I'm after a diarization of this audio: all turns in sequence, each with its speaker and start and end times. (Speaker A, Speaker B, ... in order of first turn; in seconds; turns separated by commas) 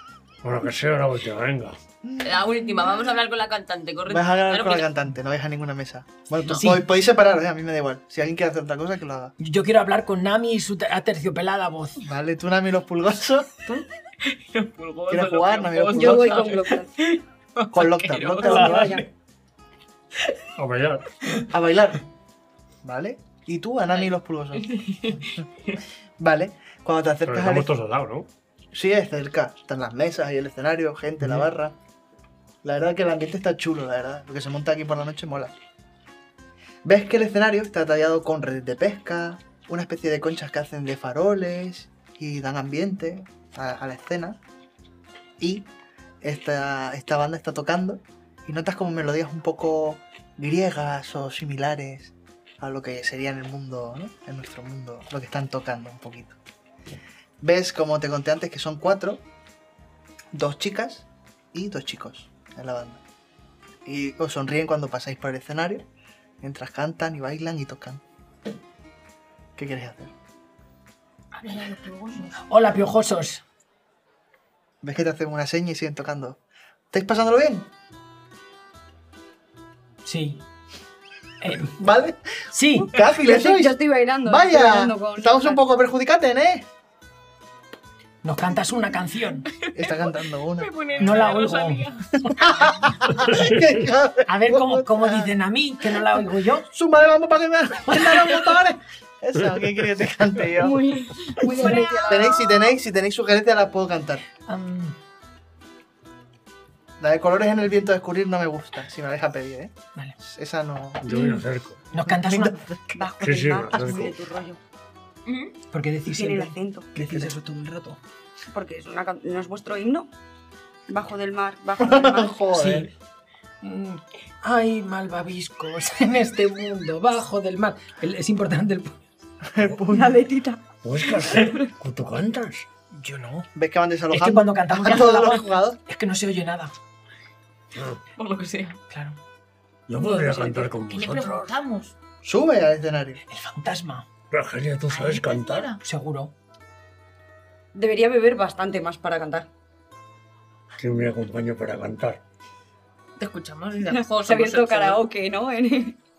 Speaker A: 0.4-1.8, Speaker B: 2.0-2.4, Speaker C: 2.2-4.9, Speaker B: 4.1-9.3, Speaker C: 6.4-6.8, Speaker D: 9.4-12.0, Speaker B: 12.0-13.7, Speaker C: 13.7-18.8, Speaker B: 15.1-16.6, Speaker E: 15.9-16.9, Speaker B: 17.7-18.9, Speaker E: 18.4-19.1, Speaker D: 18.7-19.0, Speaker A: 20.6-21.1, Speaker B: 21.5-22.0, Speaker B: 22.8-24.8, Speaker C: 24.6-25.8, Speaker B: 26.2-27.7, Speaker A: 27.2-28.3, Speaker B: 28.7-31.8, Speaker A: 31.2-31.5, Speaker B: 32.6-35.5, Speaker B: 36.8-44.4, Speaker B: 45.4-45.7, Speaker B: 46.2-56.4, Speaker B: 57.4-59.2, Speaker B: 60.3-63.0, Speaker B: 63.9-65.9, Speaker B: 66.4-68.0, Speaker B: 69.5-70.1, Speaker C: 71.3-72.3, Speaker D: 72.3-73.4, Speaker B: 74.8-76.4, Speaker B: 76.9-77.7, Speaker D: 80.0-80.4, Speaker D: 81.4-81.8, Speaker B: 81.6-86.7, Speaker D: 82.5-82.9, Speaker E: 83.0-85.6, Speaker D: 88.2-89.5, Speaker C: 89.5-92.7, Speaker B: 89.7-90.7, Speaker D: 91.0-91.9, Speaker B: 92.3-95.3, Speaker A: 93.1-93.9, Speaker D: 94.3-96.7, Speaker B: 95.9-100.8, Speaker D: 97.9-98.3, Speaker A: 99.4-99.8, Speaker E: 100.5-102.7, Speaker D: 101.5-102.1, Speaker B: 102.0-104.2, Speaker D: 104.4-105.0, Speaker B: 107.0-111.1, Speaker A: 111.0-111.9, Speaker D: 111.9-112.6, Speaker B: 112.0-113.0, Speaker E: 112.9-114.6, Speaker A: 113.2-114.2, Speaker C: 115.2-115.5, Speaker D: 115.7-118.0, Speaker E: 116.0-116.9, Speaker B: 117.0-117.3, Speaker E: 118.5-120.1, Speaker E: 120.9-122.3, Speaker B: 121.8-122.9, Speaker D: 122.5-122.9, Speaker D: 123.6-129.0, Speaker B: 129.4-130.2, Speaker E: 129.9-131.7, Speaker A: 130.8-132.7, Speaker D: 132.9-133.5, Speaker B: 133.5-135.8, Speaker D: 134.1-136.7, Speaker A: 137.7-138.0, Speaker C: 138.2-138.8, Speaker D: 138.9-139.2, Speaker A: 139.9-141.5, Speaker C: 140.0-141.9, Speaker B: 142.2-143.2, Speaker D: 143.3-144.1, Speaker A: 144.3-145.8, Speaker C: 144.9-145.8, Speaker D: 145.8-146.3, Speaker E: 147.7-149.5, Speaker A: 150.8-152.2, Speaker C: 153.2-155.0, Speaker E: 153.8-156.0